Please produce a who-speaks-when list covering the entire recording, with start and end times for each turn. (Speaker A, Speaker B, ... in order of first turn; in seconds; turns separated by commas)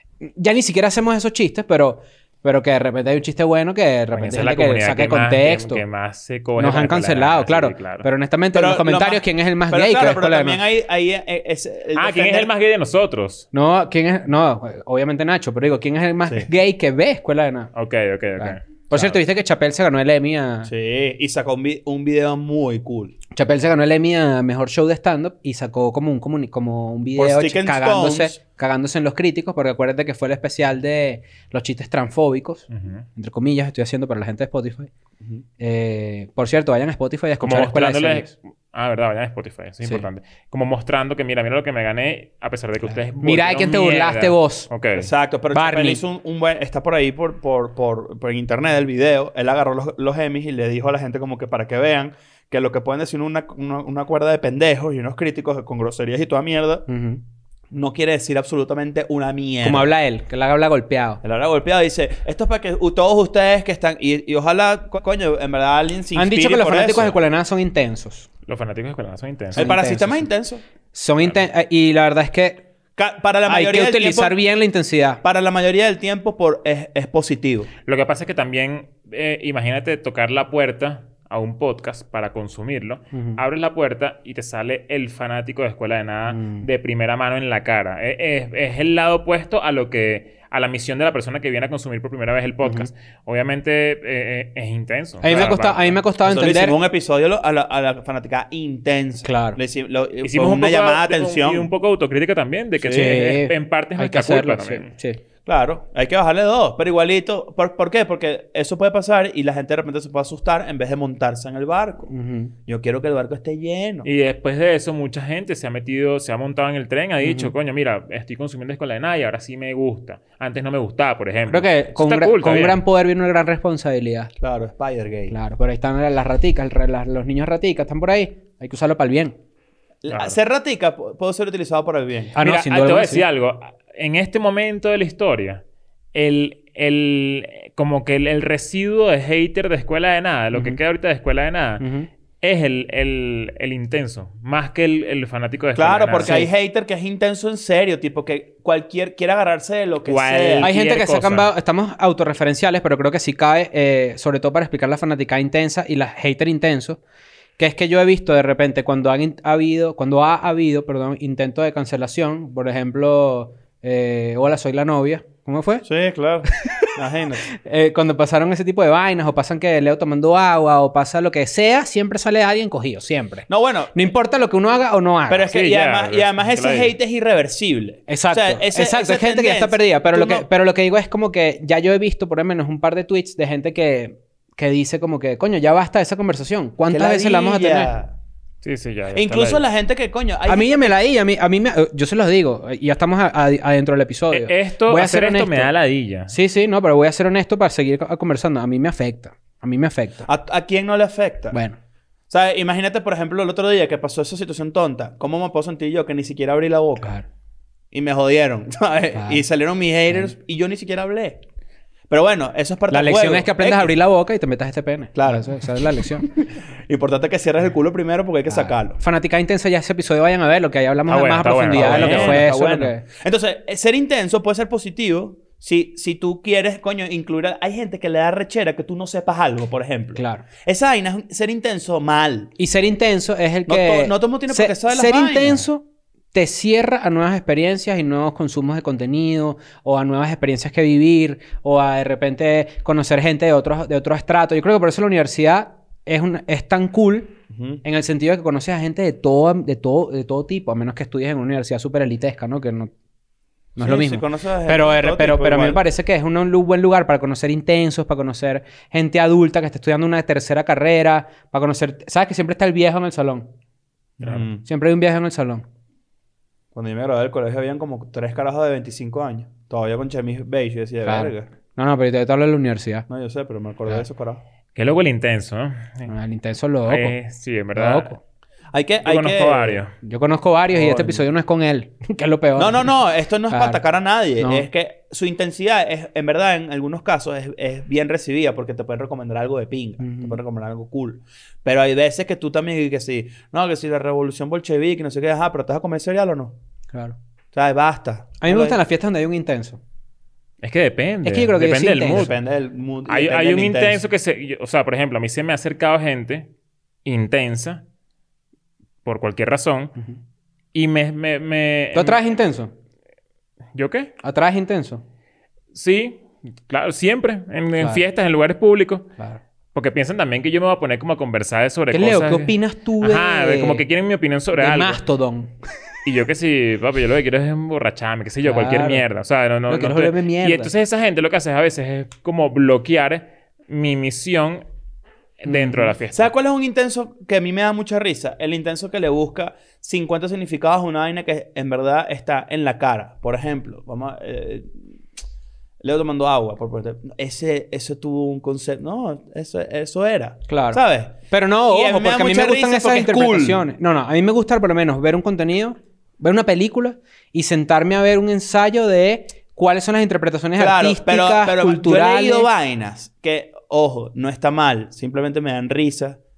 Speaker A: 0.2-5.8, Speaker B: 4.1-8.1, Speaker A: 6.6-10.6, Speaker C: 8.5-12.5, Speaker B: 11.9-13.5, Speaker A: 13.5-17.7, Speaker B: 17.7-19.2, Speaker A: 18.4-20.7, Speaker C: 20.7-23.1, Speaker A: 23.3-34.9, Speaker C: 27.1-28.4, Speaker B: 32.7-33.0, Speaker A: 35.6-38.3, Speaker B: 37.4-45.1, Speaker A: 43.2-44.7, Speaker C: 44.9-56.9, Speaker A: 45.5-46.0, Speaker A: 56.9-57.2, Speaker C: 57.7-59.9, Speaker A: 59.6-61.2, Speaker C: 61.2-67.2, Speaker A: 66.1-68.3, Speaker B: 68.5-69.7, Speaker C: 69.5-70.6, Speaker A: 69.5-70.3, Speaker A: 70.9-72.7, Speaker C: 73.0-74.3, Speaker A: 73.5-75.2, Speaker C: 75.2-77.7, Speaker B: 77.8-96.0, Speaker A: 83.1-83.4, Speaker A: 86.3-86.6, Speaker A: 95.2-96.8, Speaker C: 96.2-101.7, Speaker A: 99.2-99.6, Speaker B: 100.2-104.9, Speaker C: 102.8-103.1, Speaker A: 102.9-105.2, Speaker C: 105.5-112.1, Speaker A: 112.1-112.5, Speaker C: 112.7-114.1, Speaker B: 114.0-122.8, Speaker A: 117.2-117.5, Speaker A: 121.5-124.3, Speaker C: 124.4-125.3, Speaker A: 125.3-129.3, Speaker C: 130.0-132.3, Speaker B: 130.1-130.3, Speaker A: 132.3-133.2, Speaker B: 132.4-135.6, Speaker B: 136.1-141.8, Speaker A: 140.5-140.8, Speaker A: 141.8-142.1, Speaker B: 142.4-146.4, Speaker C: 145.7-150.7, Speaker B: 150.1-151.5, Speaker A: 150.6-157.0, Speaker A: 157.6-165.8, Speaker C: 165.8-167.5, Speaker A: 167.5-175.5, Speaker C: 173.5-173.9, Speaker C: 175.3-180.5, Speaker B: 175.5-176.9, Speaker A: 178.1-187.9, Speaker C: 186.9-188.1, Speaker B: 188.6-189.6, Speaker C: 189.1-190.9, Speaker A: 190.5-195.7, Speaker B: 194.3-196.3, Speaker A: 196.3-200.2, Speaker C: 200.2-201.6, Speaker A: 201.5-201.8, Speaker C: 202.3-207.1, Speaker C: 207.9-211.4, Speaker A: 209.1-209.4, Speaker C: 212.1-213.9, Speaker A: 212.9-216.3, Speaker C: 215.1-219.0, Speaker A: 218.5-223.0, Speaker B: 221.1-222.5, Speaker C: 221.7-232.5, Speaker A: 230.1-230.4, Speaker A: 232.6-252.9, Speaker C: 233.7-235.6, Speaker C: 247.5-247.8, Speaker A: 253.8-263.5, Speaker C: 253.8-255.8, Speaker C: 264.2-264.6, Speaker B: 264.2-264.5, Speaker A: 264.6-265.6, Speaker C: 266.7-271.5, Speaker A: 271.0-273.1, Speaker C: 273.1-274.4, Speaker B: 274.8-276.1, Speaker A: 276.1-277.1, Speaker B: 276.9-278.1, Speaker A: 277.7-278.2, Speaker C: 278.7-279.8, Speaker B: 279.0-279.9, Speaker A: 280.0-282.9, Speaker C: 280.7-281.2, Speaker C: 282.6-296.6, Speaker A: 283.5-283.8, Speaker A: 284.4-284.7, Speaker A: 290.0-290.4, Speaker A: 296.9-297.2, Speaker C: 297.5-298.8, Speaker A: 298.4-299.8, Speaker B: 300.6-302.4, Speaker A: 301.2-302.3, Speaker C: 302.1-304.0, Speaker B: 303.1-306.5, Speaker B: 307.0-307.8, Speaker B: 309.0-309.9, Speaker B: 310.7-312.2, Speaker A: 311.9-312.7, Speaker B: 313.7-314.1, Speaker A: 314.2-315.0, Speaker B: 315.7-319.1, Speaker A: 317.8-318.0, Speaker B: 319.7-325.0, Speaker A: 321.9-323.8, Speaker A: 324.5-325.5, Speaker B: 326.0-334.6, Speaker A: 328.4-329.0, Speaker A: 329.7-330.7, Speaker B: 335.4-336.3, Speaker A: 335.5-335.9, Speaker C: 336.1-344.9, Speaker C: 345.8-353.6, Speaker A: 350.5-362.5, Speaker C: 360.6-366.2